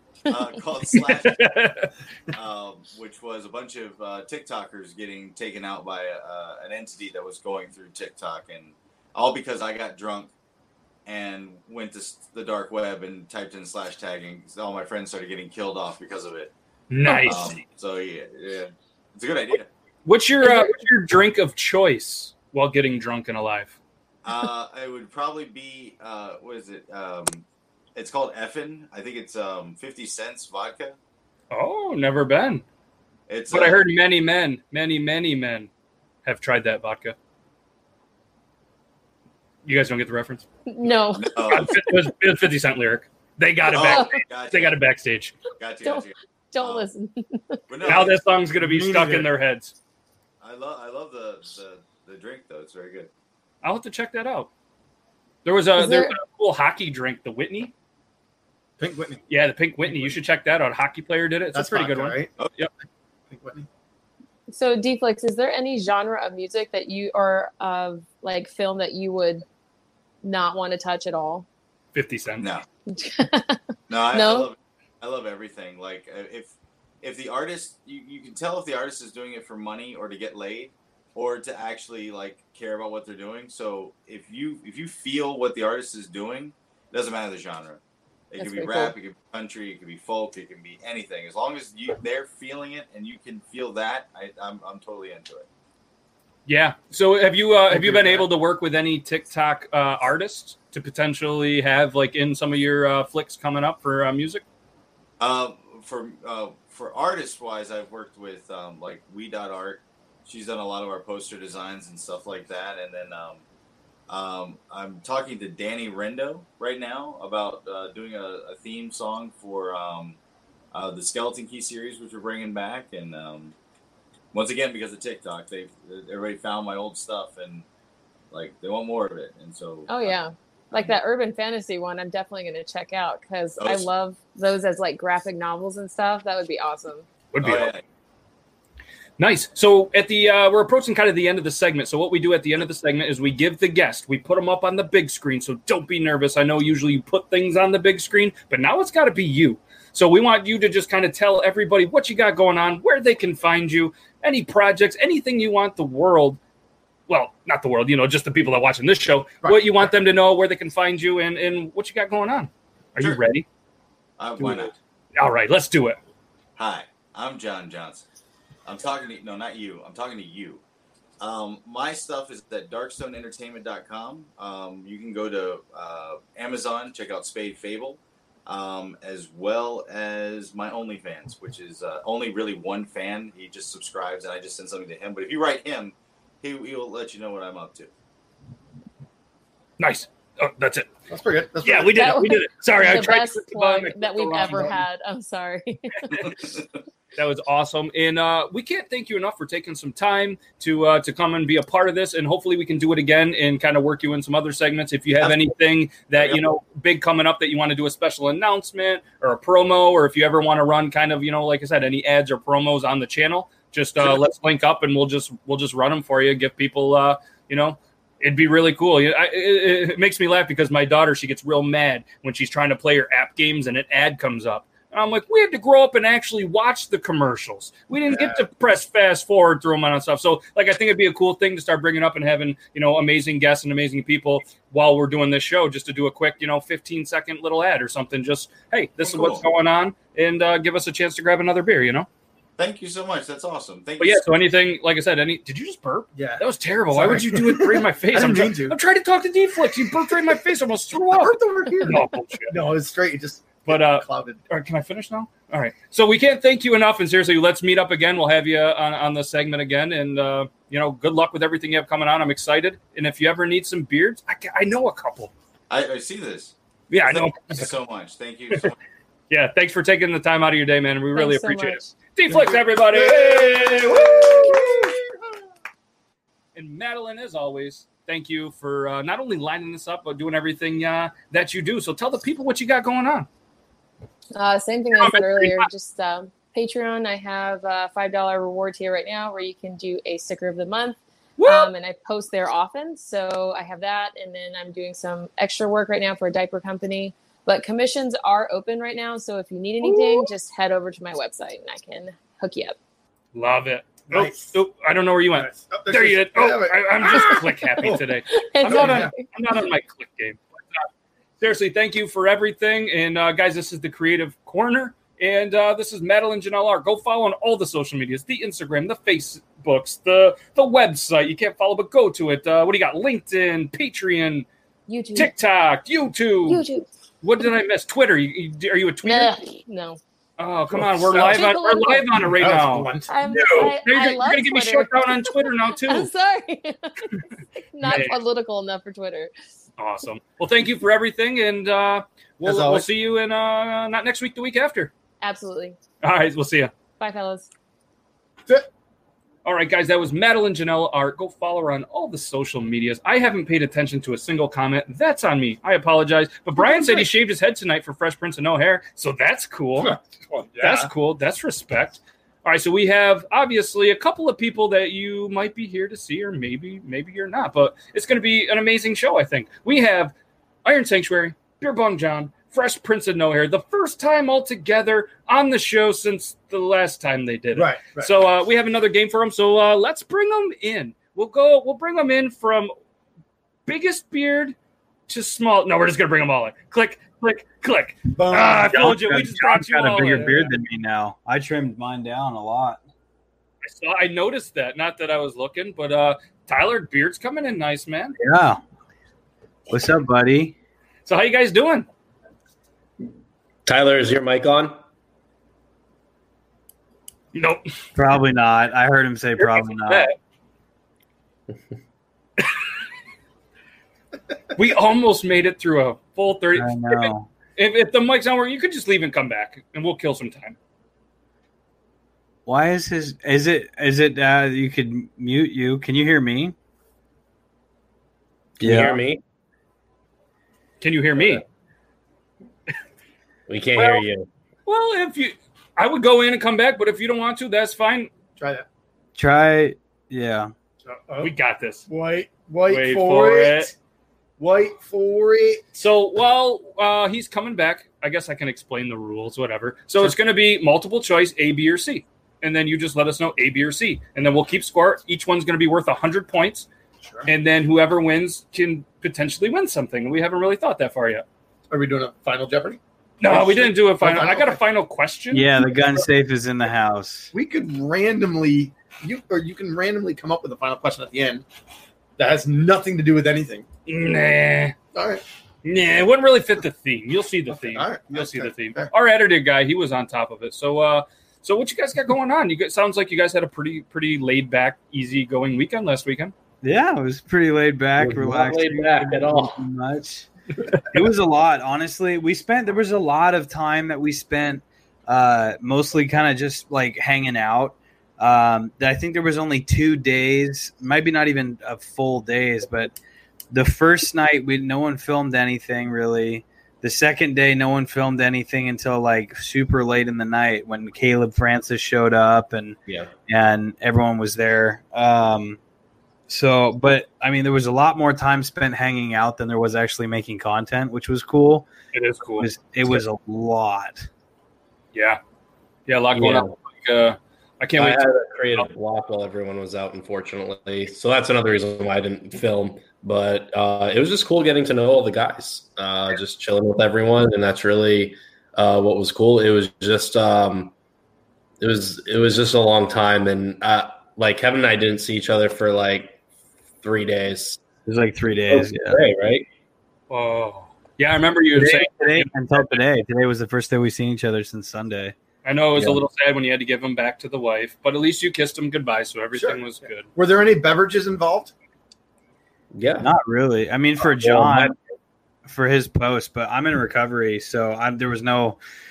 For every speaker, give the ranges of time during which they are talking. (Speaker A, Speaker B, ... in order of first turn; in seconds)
Speaker A: 0.3-1.5, 2.3-10.3, 11.1-16.5, 17.2-19.7, 24.2-30.9, 33.3-33.8, 41.1-41.8, 43.7-44.8, 45.6-46.9, 47.7-48.2, 50.4-53.1, 73.9-95.5, 105.2-113.4, 114.1-120.2, 120.7-123.5, 124.3-127.7, 128.3-130.1, 133.6-133.8, 137.4-137.8, 164.2-164.8, 166.6-168.0, 168.6-170.6, 171.2-187.9, 239.0-239.4, 242.6-244.2, 265.7-268.8
Speaker B: 1.2-1.9, 16.9-17.6, 20.1-23.8, 31.5-32.6, 33.5-35.7, 36.2-37.1, 39.6-40.5, 41.5-45.3, 47.8-49.7, 53.6-54.5, 55.4-57.7, 59.3-62.7, 71.9-72.5, 96.5-104.4, 137.3-137.7, 139.2-156.4, 157.1-163.4, 164.4-166.0, 189.8-190.9, 191.6-194.8, 197.2-242.1, 244.0-252.5, 253.7-265.3, 266.9-267.7, 269.3-274.9, 276.5-283.3, 284.9-285.7, 291.4-291.7, 299.8-300.3, 303.3-310.4, 311.4-324.5, 325.1-326.6, 327.2-329.4, 330.4-336.1, 337.8-338.2, 339.8-344.9, 346.0-346.7, 349.4-359.9, 360.6-370.1, 370.6-382.7, 383.6-384.5, 385.1-390.5, 393.6-398.2, 401.1-401.9, 407.3-407.6, 409.4-410.1, 414.5-420.6, 430.8-431.4, 433.8-434.0, 434.6-438.1, 441.2-441.9, 442.7-443.7, 445.7-456.7, 457.3-461.2, 463.2-465.5, 473.9-474.8, 475.6-486.3, 521.9-522.5, 524.9-525.2, 525.9-528.7, 550.1-552.8, 555.4-560.1
Speaker C: 20.4-20.7, 40.6-41.8, 43.7-44.2, 45.8-47.6, 55.8-56.1, 64.5-69.4, 70.2-71.5, 72.9-73.6, 74.1-74.5, 88.4-88.9, 129.9-137.1, 191.9-196.5, 271.1-271.9, 284.3-302.8, 307.1-309.2, 324.9-325.3, 326.4-326.9, 329.0-330.0, 331.1-332.3, 333.1-339.3, 345.2-345.8, 347.0-347.5
Speaker D: 48.6-49.3, 58.8-59.2, 59.9-60.1, 61.5-62.3, 63.3-63.7, 159.4-159.9, 191.1-192.1, 194.4-194.8, 228.1-228.4, 246.1-248.8, 251.1-254.4, 272.3-275.2, 304.1-304.4, 305.3-308.1, 308.6-309.1, 330.7-331.4, 332.2-333.1, 342.4-342.9, 356.6-357.1, 359.8-360.9, 377.5-378.1, 388.1-388.9, 438.4-438.6, 440.8-441.3, 441.9-443.7, 444.4-445.6, 461.7-464.6, 467.3-471.4, 472.2-473.6, 474.9-475.2, 477.5-478.9, 559.3-559.6, 560.1-561.5
Speaker E: 388.7-392.8, 398.2-398.6, 399.7-400.5, 407.9-410.1, 416.5-417.3, 422.4-426.5, 428.6-429.0, 439.1-440.5, 465.3-467.3, 486.6-490.3, 490.8-502.9, 503.5-515.6, 516.3-521.7, 522.4-524.1, 547.8-549.0, 551.5-555.1, 563.0-564.7, 565.4-568.6
Speaker F: 403.6-404.8, 428.6-429.2, 433.5-434.2, 488.0-489.6, 526.1-526.5, 527.8-540.7, 541.6-546.2, 546.8-547.6, 548.5-549.5, 562.7-563.1, 564.0-564.8